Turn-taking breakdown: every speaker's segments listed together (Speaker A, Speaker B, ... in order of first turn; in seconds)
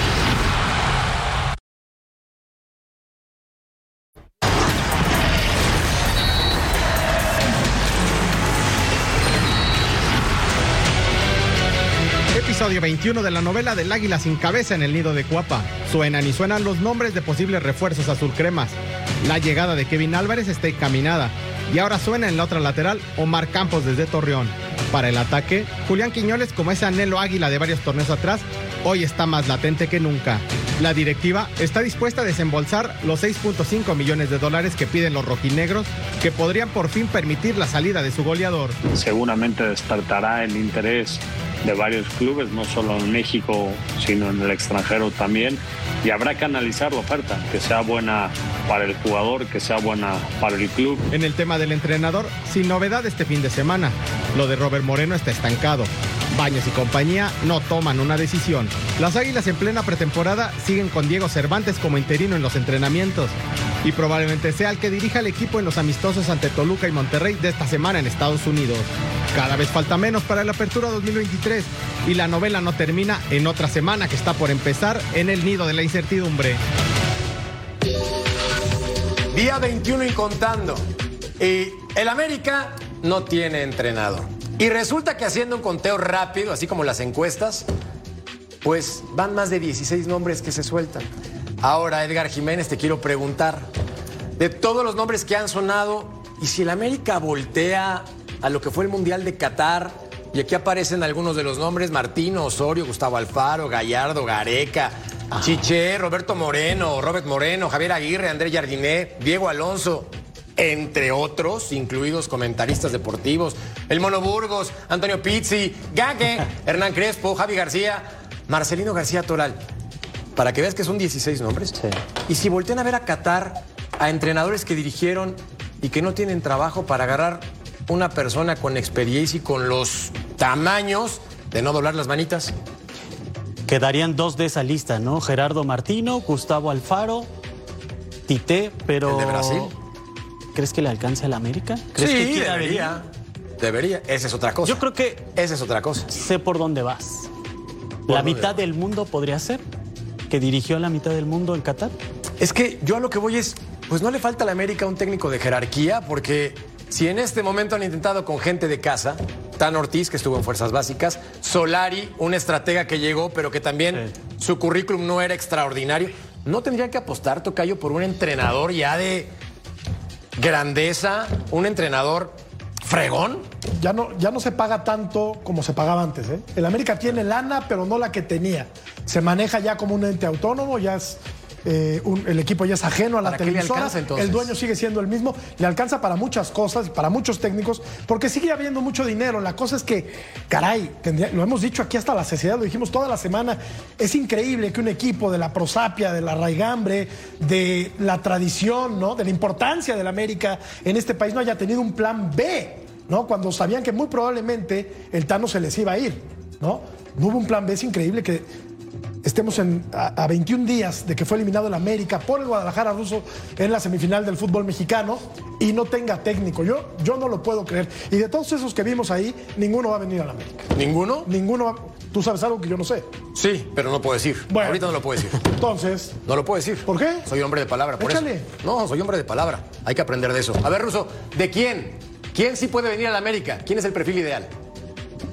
Speaker A: 12.3-38.8, 51.1-76.6
Speaker B: 38.9-51.1
Speaker C: 79.3-80.8, 81.4-87.7, 88.6-91.1, 91.6-93.7, 94.4-119.6, 120.3-132.5, 139.0-139.7, 141.9-143.0, 143.6-146.1, 148.1-148.6, 152.4-169.3, 170.4-173.4, 183.2-184.5, 220.7-221.3, 223.3-225.4, 226.2-234.5
Speaker D: 133.7-137.3, 138.3-139.7, 140.5-143.0, 144.6-145.2, 146.1-147.3, 148.1-149.6, 150.3-151.9
Speaker E: 173.8-208.4, 209.2-220.7, 221.2-223.1, 224.5-226.2, 226.8-227.3, 228.0-228.5